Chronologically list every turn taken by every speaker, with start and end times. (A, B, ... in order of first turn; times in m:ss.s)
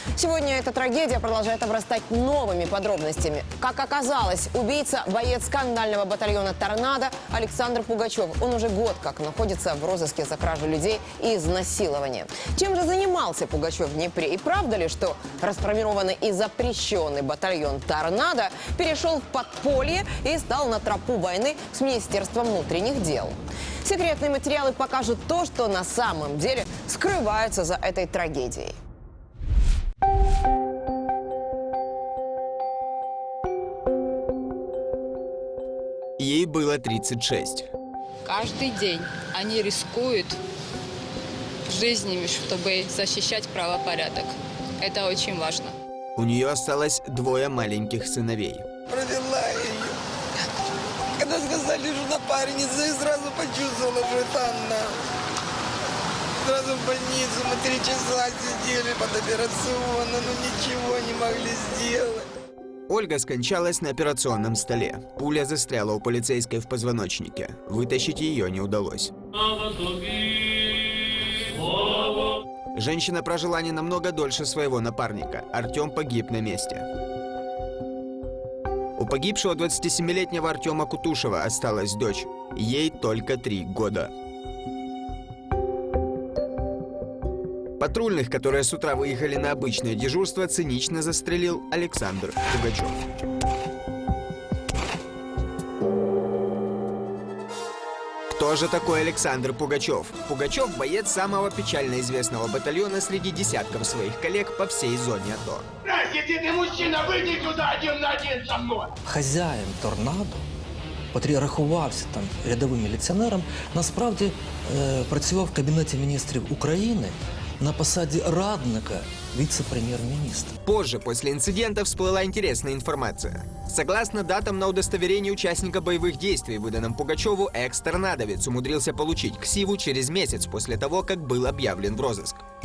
0:00.2-0:28.7 A
0:36.2-0:37.7 B
0:38.2-0:40.4 C
0:41.7-0:45.7 C
0:46.2-0:48.7 B
0:48.9-0:50.0 D
0:51.2-0:55.0 D
0:56.4-1:02.3 D
1:02.9-1:09.1 B
1:12.8-1:16.8 B
1:19.0-1:24.1 B
1:27.8-1:33.0 B
1:38.3-1:45.7 B
1:45.8-1:48.9 E
1:49.0-1:50.5 F
1:51.1-2:00.6 F
2:00.6-2:12.4 B